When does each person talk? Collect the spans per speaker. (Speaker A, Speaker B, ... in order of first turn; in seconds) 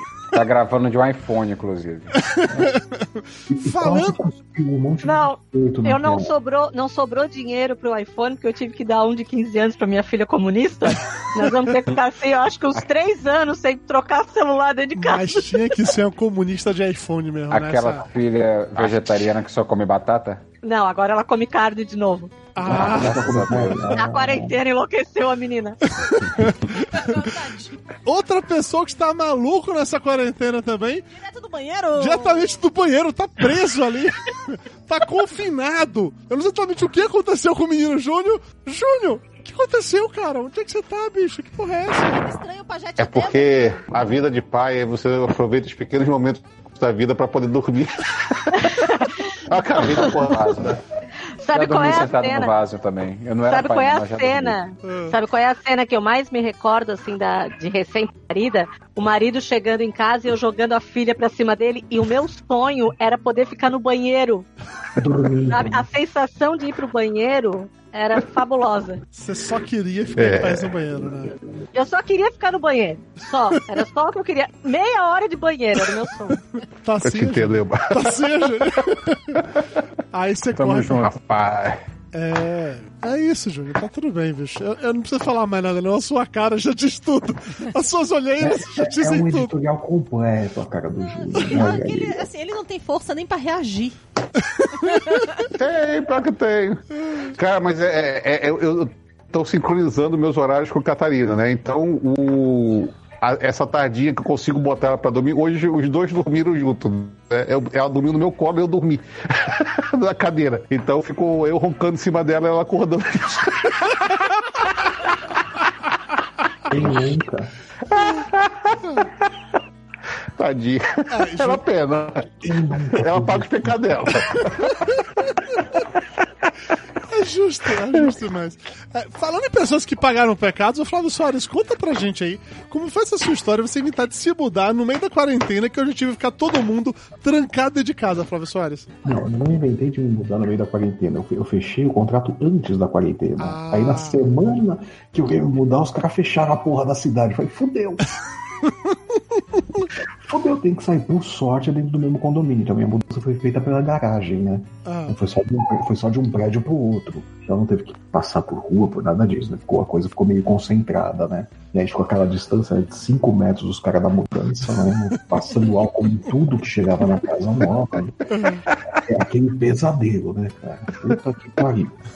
Speaker A: 0.3-2.1, 17.5-20.4, 22.6-23.9, 50.1-50.8, 51.5-54.6, 80.5-81.2
Speaker B: 2.2-4.2, 14.9-18.1, 22.5-23.3, 25.9-27.3, 28.0-31.1, 32.0-42.3, 54.8-55.1, 69.1-71.3, 76.5-79.4, 80.1-81.1, 82.1-89.5, 94.5-95.2, 121.1-121.6, 127.1-139.0, 143.4-144.2, 148.6-148.9, 154.8-155.2, 168.3-168.7
Speaker C: 3.5-6.3, 22.6-24.6, 65.0-65.9, 88.4-92.3, 116.7-117.5, 122.4-123.8, 139.0-148.1, 150.2-172.0
Speaker D: 5.0-15.6, 20.6-22.4, 23.9-25.8, 48.5-50.0, 51.4-52.5, 53.5-64.5, 65.5-69.0, 71.7-76.4
Speaker E: 26.7-27.8, 31.1-32.6, 42.1-43.9, 91.0-94.0, 94.8-95.5
Speaker F: 43.0-50.8, 70.2-70.8, 77.0-78.2, 81.0-81.8, 95.5-114.2, 117.9-119.1, 120.4-124.9